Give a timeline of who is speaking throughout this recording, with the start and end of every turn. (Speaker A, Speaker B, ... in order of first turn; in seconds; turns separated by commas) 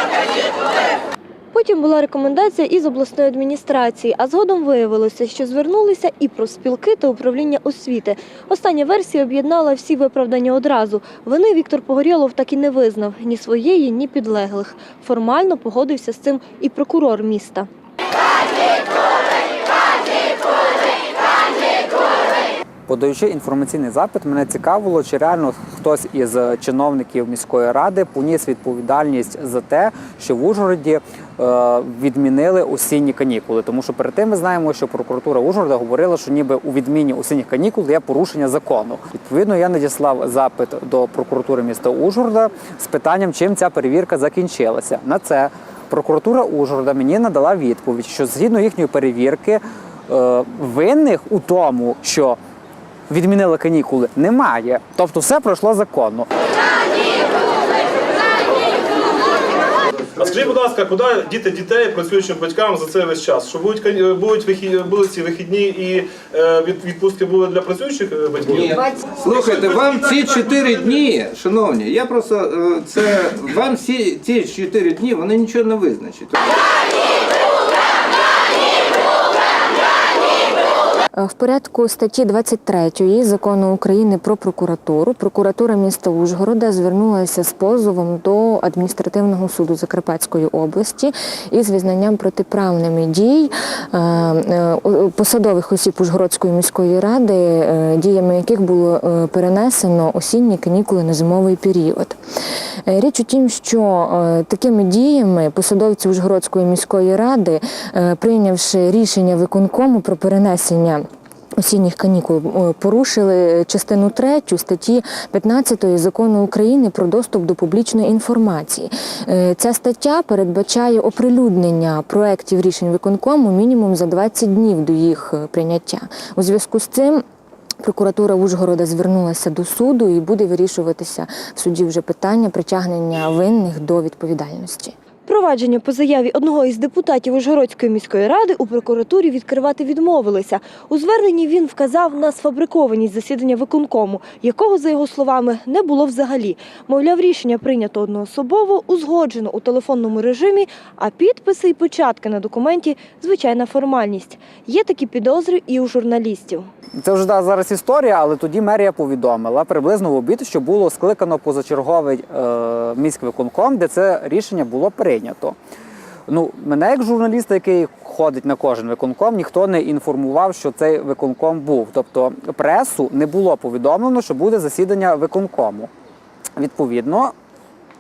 Speaker A: 1.5-17.7, Speaker B: 22.9-52.4, Speaker B: 53.1-56.3, Speaker C: 60.1-68.8, Speaker D: 68.5-76.5, Speaker E: 81.2-102.2, Speaker E: 102.8-111.0, Speaker E: 111.6-127.2, Speaker E: 127.8-134.9, Speaker A: 135.2-156.7, Speaker B: 157.0-165.6, Speaker B: 166.3-175.9, Speaker B: 176.6-177.3